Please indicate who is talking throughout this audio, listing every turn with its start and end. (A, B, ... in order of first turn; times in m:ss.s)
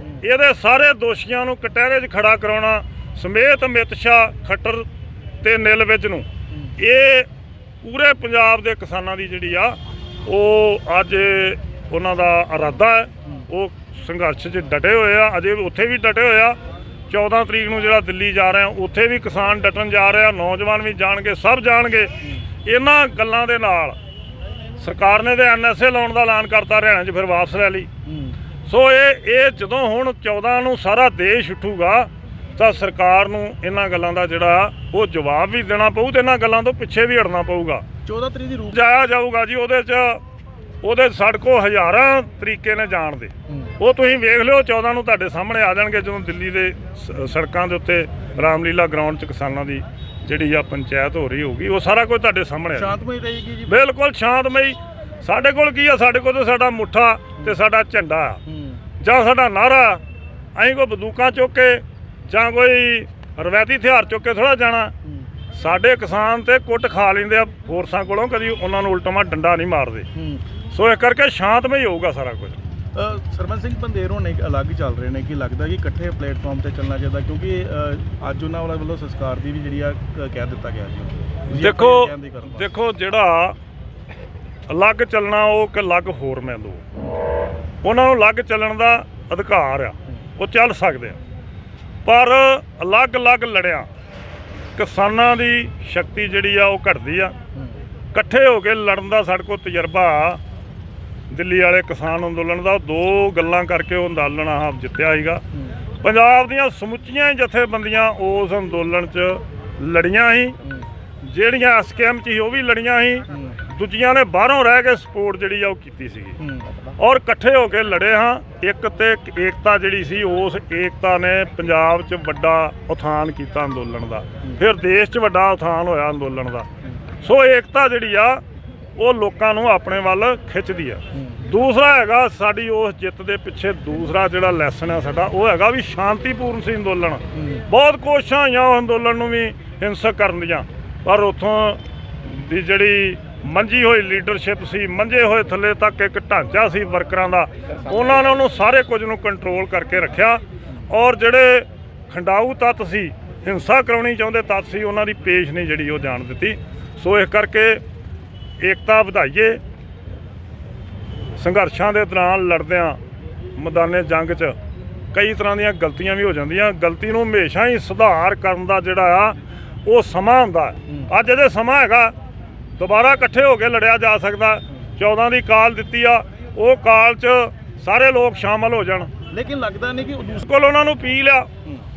0:00.2-0:04.9 A
0:05.4-0:06.3 A
0:06.8-0:07.3 A
0:07.8-0:16.6 A
0:17.1-0:24.0 A
0:24.8-0:27.9 A
0:28.1-0:28.4 B
0:28.6-0:37.8 A
0:38.1-0:38.8 B
0:38.7-0:40.2 A
0:40.8-0:53.0 A
0:52.8-0:53.7 B
0:53.7-0:58.4 A
0:58.5-0:58.8 B
0:59.0-1:00.0 A
1:00.5-1:04.9 A
1:05.5-1:10.1 A
1:10.2-1:10.4 B
1:10.7-1:12.6 A
1:12.9-1:22.7 B
1:21.5-1:23.6 A
1:24.7-1:26.8 A
1:27.8-1:31.2 A
1:32.0-1:33.9 A
1:34.8-1:37.4 A
1:38.1-1:40.4 A
1:41.3-1:45.4 A
1:46.0-1:50.6 A
1:51.2-1:56.4 A
1:53.3-1:53.6 B
1:56.4-1:56.8 B
1:57.0-2:06.7 A
2:07.2-2:08.4 A
2:09.0-2:37.8 A
2:17.3-2:17.6 B
2:38.6-2:39.6 A
2:41.4-2:43.0 A
2:43.6-2:44.6 A
2:45.1-2:52.1 A
2:52.8-2:59.1 A
2:59.3-3:00.5 B
3:00.4-3:01.5 A